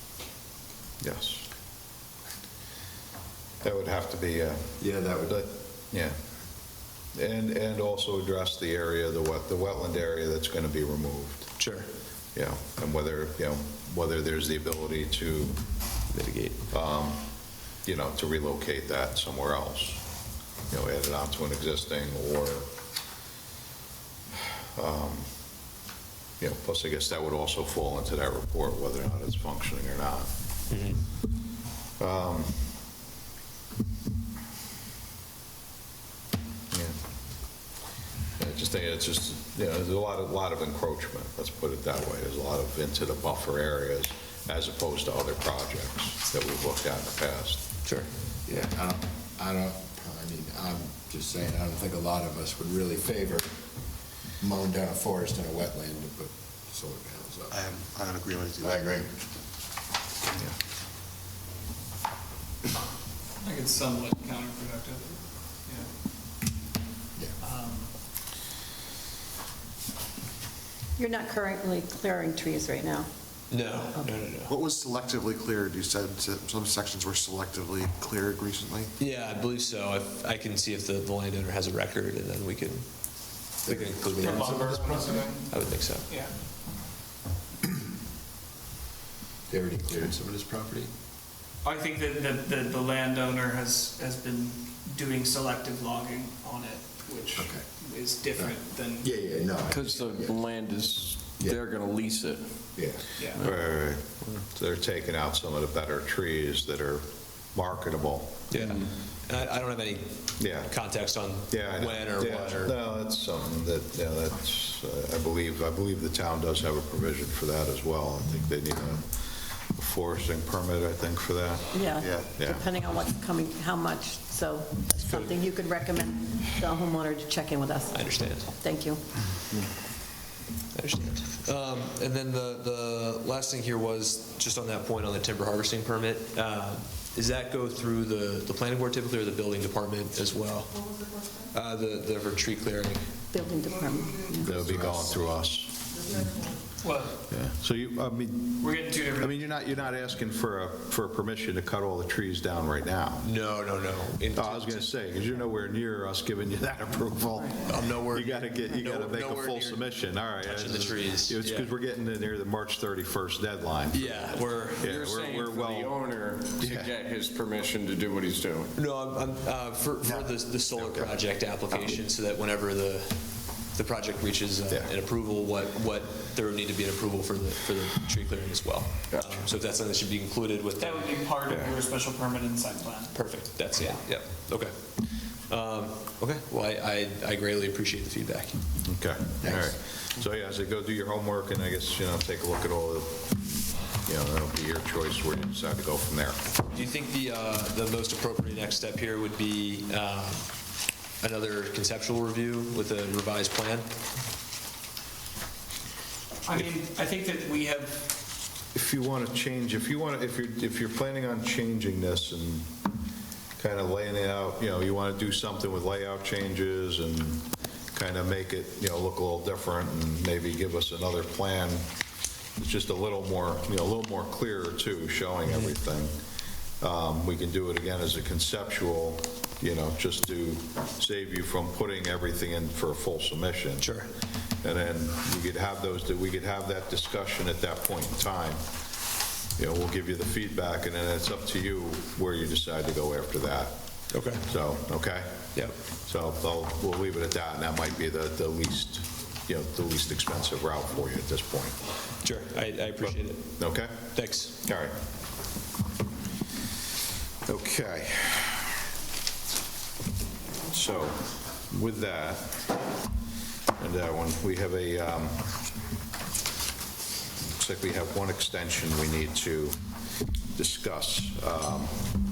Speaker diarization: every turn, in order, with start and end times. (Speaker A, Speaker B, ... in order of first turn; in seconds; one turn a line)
Speaker A: 1.0-1.5
Speaker A: 3.6-6.2
Speaker B: 4.8-5.4
Speaker A: 7.1-11.5
Speaker C: 11.6-11.9
Speaker A: 12.3-15.6
Speaker C: 16.1-16.6
Speaker A: 16.7-17.2
Speaker A: 17.8-20.0
Speaker A: 20.7-22.7
Speaker A: 24.4-25.3
Speaker A: 26.4-30.3
Speaker C: 30.7-31.0
Speaker A: 32.0-32.8
Speaker A: 36.7-37.0
Speaker A: 38.4-47.7
Speaker B: 48.5-53.5
Speaker B: 54.4-57.5
Speaker D: 57.5-58.9
Speaker B: 58.6-59.1
Speaker E: 63.4-65.9
Speaker E: 67.4-67.9
Speaker F: 71.0-73.1
Speaker C: 73.5-74.5
Speaker D: 74.5-78.9
Speaker C: 79.0-84.8
Speaker B: 83.6-85.2
Speaker E: 84.1-85.5
Speaker C: 85.4-86.1
Speaker E: 86.1-86.3
Speaker B: 89.5-90.9
Speaker E: 91.6-99.1
Speaker B: 97.3-97.7
Speaker B: 98.3-100.4
Speaker G: 99.7-102.7
Speaker B: 101.3-101.6
Speaker B: 102.7-103.0
Speaker E: 103.2-103.4
Speaker G: 103.2-103.5
Speaker A: 103.4-108.5
Speaker C: 108.5-112.8
Speaker A: 110.4-110.8
Speaker A: 111.5-122.6
Speaker F: 121.7-128.0
Speaker C: 125.0-125.3
Speaker C: 127.9-128.6
Speaker F: 128.6-129.0
Speaker C: 130.7-143.1
Speaker F: 143.3-144.5
Speaker A: 144.4-146.0
Speaker B: 144.5-145.2
Speaker E: 146.8-147.2
Speaker A: 147.3-153.3
Speaker E: 148.6-149.4
Speaker C: 153.2-155.3
Speaker A: 154.3-166.9
Speaker C: 157.7-161.7
Speaker C: 163.9-164.9
Speaker G: 164.8-168.7
Speaker C: 168.7-181.7
Speaker A: 170.0-171.1
Speaker G: 179.1-179.4
Speaker E: 180.8-183.1
Speaker C: 183.1-188.6
Speaker A: 188.8-196.4
Speaker B: 189.4-189.8
Speaker C: 196.7-200.5
Speaker C: 201.2-203.9
Speaker E: 206.4-208.1
Speaker A: 208.7-212.8
Speaker A: 213.6-221.9
Speaker A: 222.6-226.1
Speaker A: 226.8-233.9
Speaker C: 233.8-234.1
Speaker A: 234.6-238.6
Speaker A: 239.6-243.8
Speaker C: 244.1-244.5
Speaker A: 244.4-245.5
Speaker A: 246.1-251.8
Speaker C: 252.2-254.5
Speaker A: 253.0-254.9
Speaker A: 257.4-258.8
Speaker A: 260.7-262.8
Speaker A: 263.8-265.6
Speaker A: 267.6-269.8
Speaker A: 270.5-272.1